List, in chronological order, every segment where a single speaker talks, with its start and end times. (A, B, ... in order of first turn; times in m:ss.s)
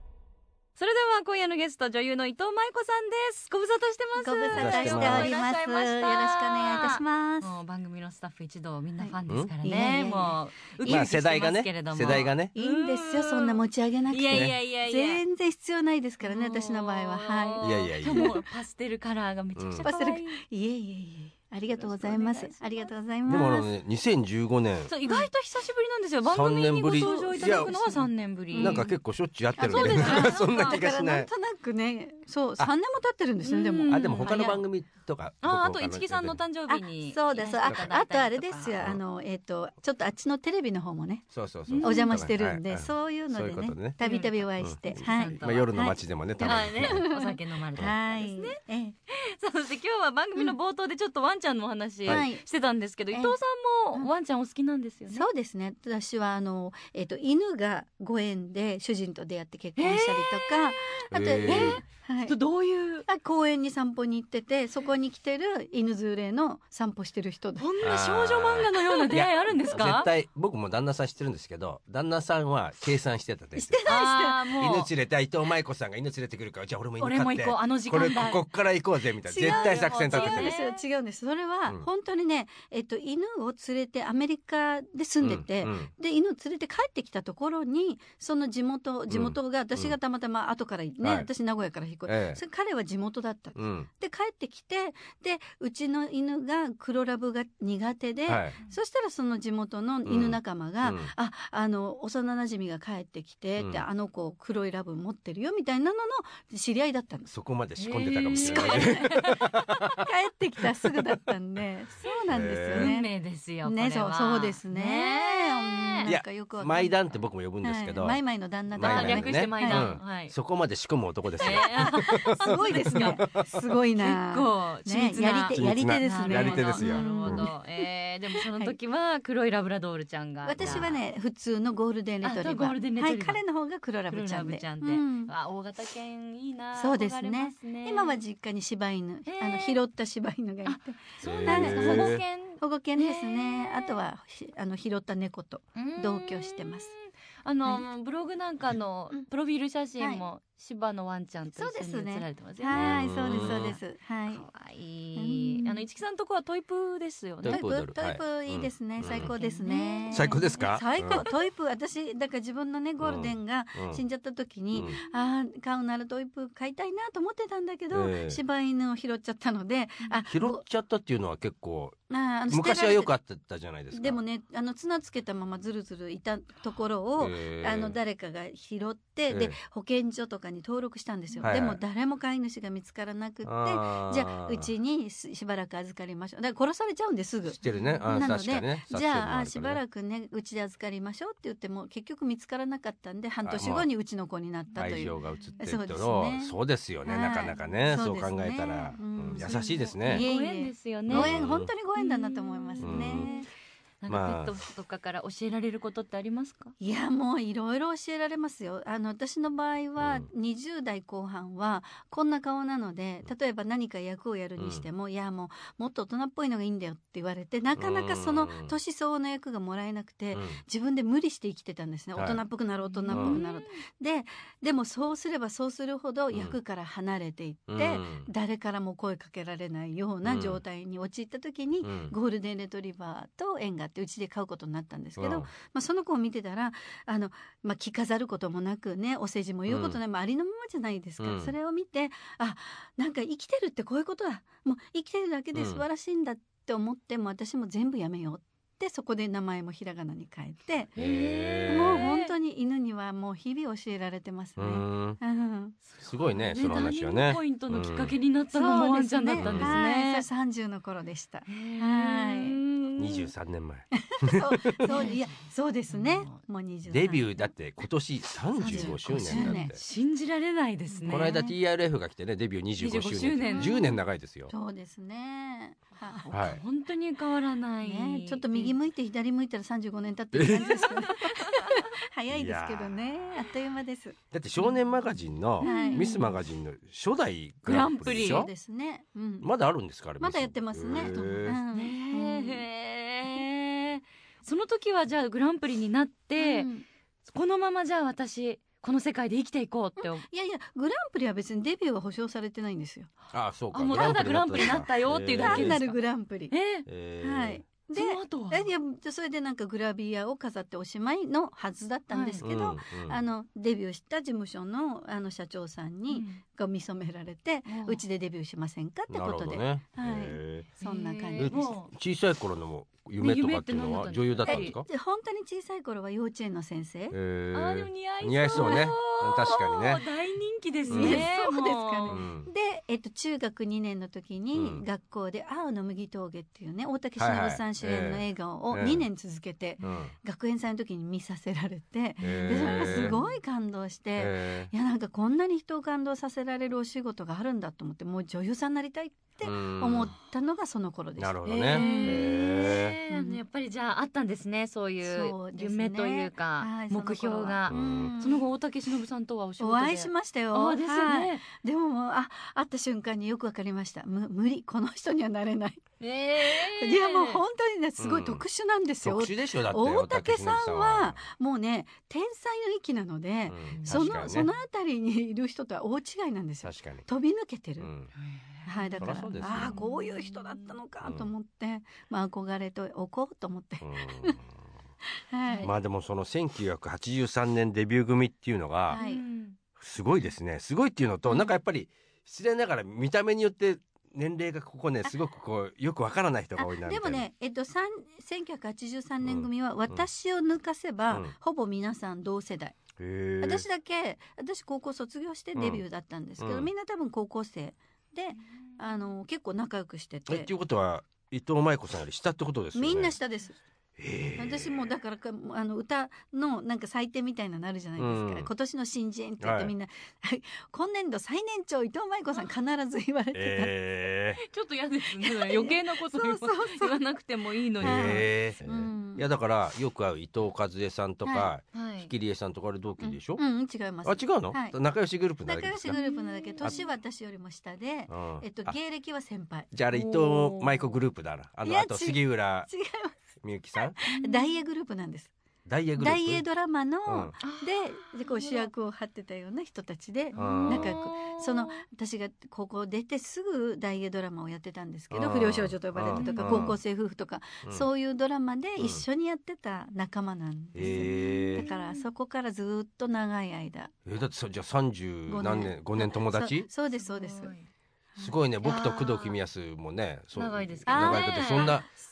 0:00.8-0:15.2 A
0:04.2-0:07.5 B
0:04.5-0:05.3 C
0:09.0-0:11.0 B
0:10.8-0:12.5 C
0:12.0-0:18.3 B
0:14.3-0:14.5 C
0:16.2-0:20.4 A
0:17.6-0:18.3 C
0:19.6-0:19.9 C
0:19.8-0:23.7 B
0:21.7-0:22.9 A
0:23.2-0:24.9 C
0:24.9-0:29.0 A
0:26.2-0:28.0 C
0:27.0-0:28.0 B
0:28.5-0:28.9 B
0:28.5-0:31.3 C
0:29.6-0:34.6 B
0:29.6-0:30.8 A
0:33.4-0:34.6 A
0:33.9-0:36.4 C
0:35.4-0:38.8 A
0:36.7-0:41.3 B
0:41.3-0:44.0 C
0:41.7-0:42.1 A
0:41.8-0:48.9 B
0:44.0-0:45.7 A
0:44.6-0:47.0 C
0:46.4-0:55.3 A
0:52.0-0:52.4 B
0:53.1-0:53.4 B
0:55.1-1:02.3 B
0:59.8-1:03.1 A
1:01.1-1:01.8 C
1:03.0-1:07.7 B
1:07.6-1:10.1 A
1:07.8-1:13.8 C
1:13.6-1:14.4 B
1:13.9-1:14.9 A
1:14.5-1:20.6 C
1:17.0-1:18.4 A
1:19.2-1:47.3 B
1:19.4-1:20.8 A
1:25.2-1:25.9 C
1:29.1-1:29.9 C
1:31.0-1:31.3 C
1:32.1-1:32.4 C
1:33.5-1:33.9 C
1:38.3-1:38.6 C
1:40.0-1:41.1 C
1:43.6-1:43.8 C
1:47.3-1:50.0 C
1:47.8-1:49.7 A
1:48.3-1:53.1 B
1:52.3-1:52.9 C
1:52.7-1:56.1 A
1:53.6-1:59.9 B
1:56.1-2:03.5 C
1:58.8-2:00.3 A
2:01.4-2:03.2 A
2:01.4-2:07.9 B
2:04.0-2:11.0 A
2:05.5-2:07.5 C
2:08.4-2:08.7 B
2:10.4-2:15.3 B
2:10.6-2:10.9 C
2:12.2-2:13.4 A
2:14.1-2:18.2 A
2:16.7-2:26.9 B
2:19.3-2:19.8 A
2:20.6-2:24.0 A
2:21.2-2:22.2 C
2:25.8-2:33.6 A
2:31.5-2:34.4 B
2:32.7-2:33.8 C
2:34.3-2:37.6 A
2:35.2-2:35.8 B
2:37.4-2:39.3 C
2:37.4-2:50.6 B
2:39.1-2:41.3 A
2:40.1-2:41.3 C
2:43.0-2:44.0 C
2:44.7-2:45.0 C
2:47.9-2:48.4 C
2:50.3-2:52.0 C
2:52.1-2:53.1 B
2:52.5-2:54.2 C
2:53.9-3:23.5 B
2:57.2-2:58.0 C
2:59.3-2:59.6 C
3:01.4-3:01.8 C
3:03.4-3:04.7 C
3:07.5-3:09.8 C
3:07.6-3:08.2 A
3:13.4-3:13.9 C
3:14.8-3:20.2 C
3:14.8-3:15.2 A
3:19.3-3:21.4 A
3:21.1-3:21.7 C
3:21.9-3:23.4 A
3:22.8-3:23.3 C
3:24.0-3:26.7 A
3:24.1-3:24.6 C
3:26.8-4:10.9 B
3:30.0-3:30.3 C
3:34.6-3:34.8 C
3:37.8-3:38.7 C
3:40.3-3:40.6 C
3:42.2-3:42.4 C
3:42.9-3:43.8 A
3:43.1-3:43.4 C
3:47.7-3:48.3 C
3:50.2-3:50.6 C
3:51.8-3:52.1 C
3:55.2-3:55.5 C
3:59.7-4:00.0 C
4:01.2-4:01.5 C
4:05.5-4:05.8 C
4:11.0-4:12.1 C
4:11.0-4:12.3 A
4:11.7-4:15.8 B
4:14.6-4:15.2 C
4:16.0-4:18.2 C
4:16.2-4:20.2 A
4:18.5-4:22.6 B
4:19.4-4:19.8 C
4:21.5-4:23.3 A
4:23.0-4:25.0 C
4:24.0-4:27.5 B
4:24.8-4:25.2 A
4:25.9-4:26.4 A
4:26.9-4:29.8 C
4:28.6-4:31.5 A
4:28.6-4:29.8 B
4:30.9-4:31.5 B
4:31.1-4:34.5 C
4:32.8-4:34.0 A
4:33.5-4:33.8 B
4:34.5-4:36.3 B
4:36.2-4:38.7 A
4:36.3-4:36.6 C
4:37.8-4:44.2 B
4:40.3-4:41.3 C
4:42.3-4:43.4 C
4:44.3-4:48.5 C
4:45.6-4:46.4 A
4:45.6-4:46.2 B
4:47.6-4:48.5 A
4:48.1-4:49.5 B
4:49.4-4:51.6 C
4:50.2-4:52.6 B
4:51.7-4:56.7 A
4:56.4-4:56.8 B
4:57.3-5:00.2 A
5:00.0-5:03.1 B
5:03.3-5:05.8 C
5:03.7-5:06.0 A
5:05.4-5:06.5 B
5:06.5-5:06.8 A
5:06.8-5:07.6 C
5:07.2-5:21.7 B
5:07.9-5:08.7 A
5:12.1-5:12.4 A
5:12.4-5:13.2 C
5:16.1-5:16.4 A
5:17.7-5:18.0 A
5:19.1-5:20.7 C
5:20.8-5:21.9 A
5:21.4-5:24.8 C
5:23.2-5:24.7 A
5:24.4-5:27.2 B
5:27.1-5:30.0 C
5:27.5-5:32.2 A
5:28.5-5:28.8 B
5:30.9-5:53.4 B
5:30.9-5:31.3 C
5:32.1-5:32.5 C
5:34.5-5:34.8 C
5:37.2-5:39.0 C
5:39.8-5:40.1 C
5:42.2-5:43.4 A
5:42.2-5:43.2 C
5:44.2-5:44.7 C
5:49.4-5:50.1 C
5:51.2-5:53.0 C
5:51.4-6:01.4 A
5:55.0-5:58.4 B
5:57.7-5:58.1 C
5:59.6-6:17.9 B
6:06.0-6:07.4 A
6:08.0-6:08.4 C
6:09.0-6:11.2 C
6:13.5-6:14.5 C
6:13.7-6:14.0 A
6:16.6-6:17.1 C
6:17.8-6:18.1 C
6:18.2-6:20.6 A
6:18.6-6:24.4 B
6:19.0-6:19.8 C
6:21.0-6:21.3 C
6:23.8-6:24.5 C
6:25.3-6:25.7 B
6:25.6-6:29.0 C
6:28.9-6:29.2 B
6:28.9-6:29.6 A
6:29.8-6:37.2 C
6:36.6-6:42.8 B
6:39.2-6:40.0 C
6:43.0-6:43.6 C
6:43.4-6:50.5 B
6:45.5-6:45.8 C
6:46.4-6:46.7 C
6:50.3-6:53.1 C
6:52.7-6:53.6 B
6:54.0-6:54.9 C
6:54.4-7:03.7 B
6:58.0-6:58.5 C
6:59.4-6:59.7 C
7:03.3-7:04.4 C
7:04.4-7:08.2 A
7:05.2-7:07.0 B
7:07.8-7:13.4 C
7:07.8-7:09.2 B
7:11.2-7:11.5 B
7:11.7-7:12.1 A
7:13.0-7:14.8 B
7:14.0-7:16.0 C
7:15.4-7:19.7 B
7:15.9-7:16.8 A
7:18.1-7:18.8 C
7:19.7-7:22.7 C
7:19.9-7:20.9 A
7:21.6-7:25.3 B
7:23.4-7:24.0 C
7:24.1-7:24.6 A
7:25.6-7:26.4 C
7:26.0-7:43.9 B
7:27.1-7:27.3 C
7:27.4-7:28.7 A
7:30.3-7:31.8 A
7:30.3-7:31.0 C
7:35.1-7:36.8 C
7:36.2-7:36.7 A
7:38.8-7:39.0 C
7:40.7-7:41.6 C
7:40.8-7:42.0 A
7:44.0-7:46.7 C
7:45.3-7:47.5 B
7:47.0-7:47.6 A
7:48.2-7:51.9 C
7:48.6-7:49.4 A
7:50.3-7:51.8 A
7:50.9-7:51.7 B